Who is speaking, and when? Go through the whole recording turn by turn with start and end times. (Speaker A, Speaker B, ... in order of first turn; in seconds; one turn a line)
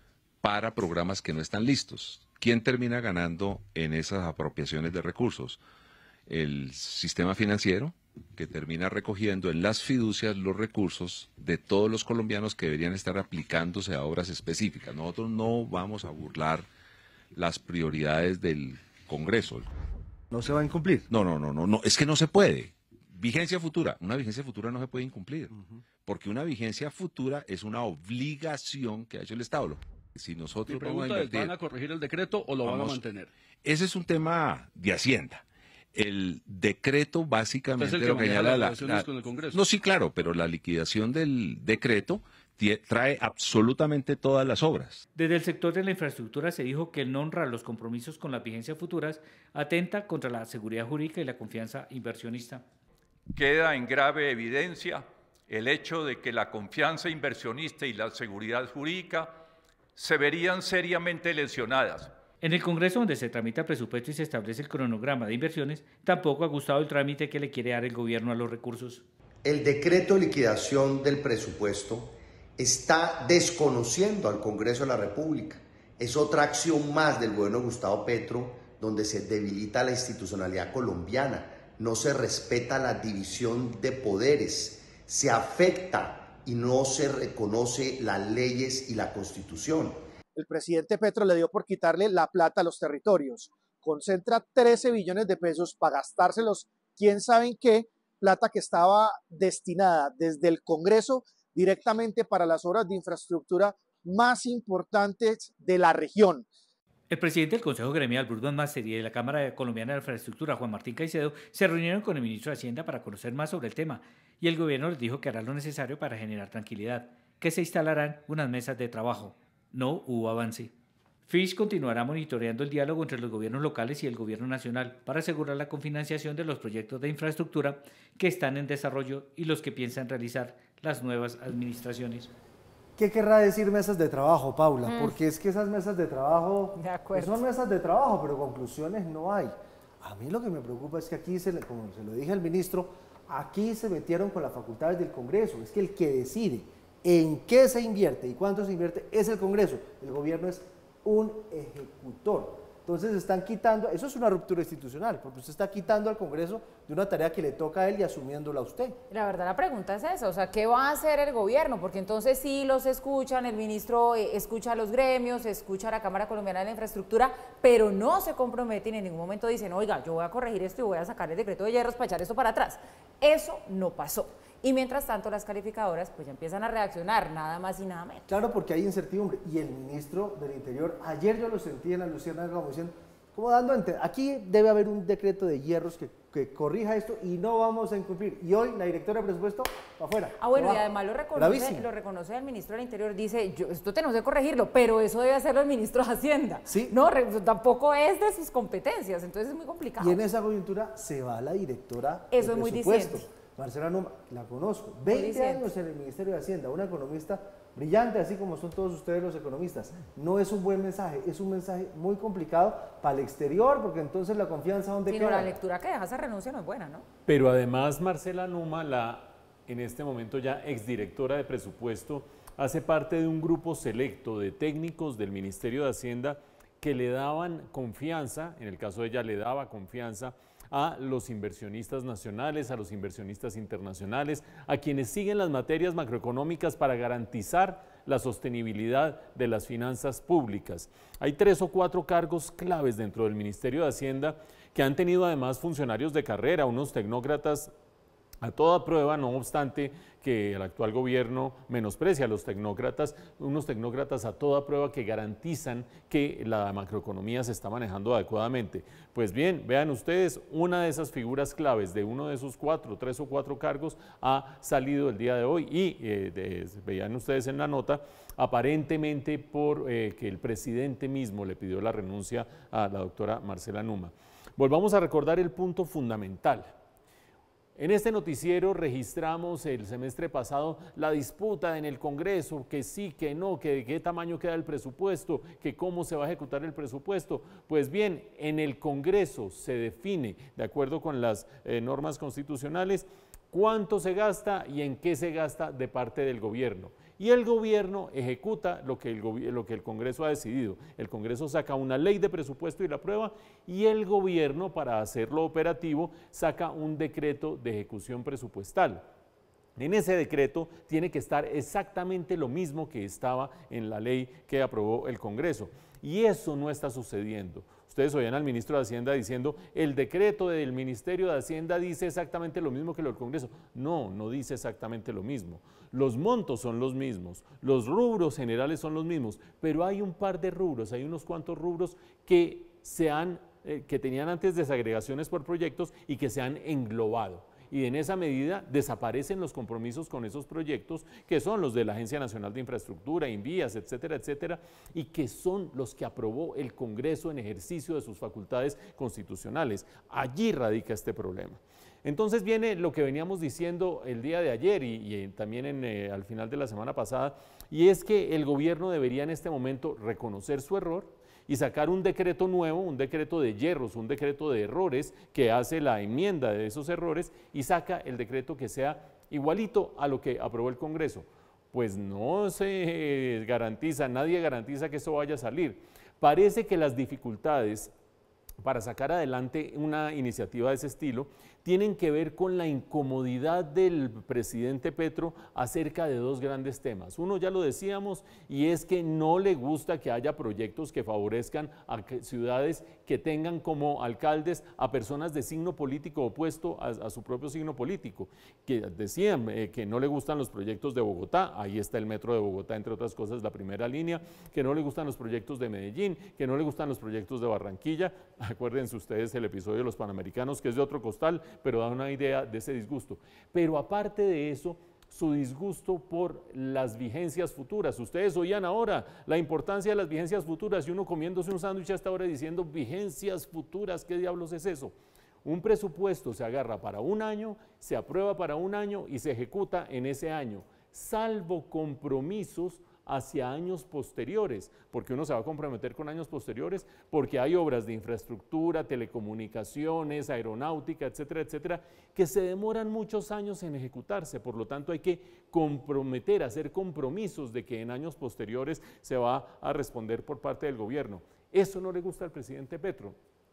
Speaker A: 0.4-5.6
Speaker A: 6.3-16.7
Speaker A: 17.3-19.7
Speaker B: 20.3-21.1
Speaker A: 21.1-25.5
Speaker A: 26.1-31.6
Speaker C: 30.7-33.3
Speaker A: 32.6-33.0
Speaker A: 33.6-45.0
Speaker C: 37.8-39.5
Speaker D: 45.1-52.6
Speaker E: 53.4-59.4
Speaker E: 60.0-62.1
Speaker D: 62.4-69.0
Speaker F: 69.4-90.0
Speaker G: 90.3-106.5
Speaker D: 107.1-120.7
Speaker D: 121.3-132.3
Speaker B: 133.0-158.9
Speaker H: 134.8-135.2
Speaker H: 136.8-137.4
Speaker H: 159.1-178.3
Speaker B: 178.3-191.9
Speaker H: 190.4-200.2
Speaker B: 196.7-196.9
Speaker B: 200.0-215.5
Speaker H: 202.3-203.3
Speaker H: 205.1-205.7
Speaker H: 215.1-217.1
Speaker I: 217.2-247.7
Speaker I: 248.4-276.7
Speaker I: 277.8-309.1
Speaker I: 309.8-377.9
Speaker I: 378.6-453.2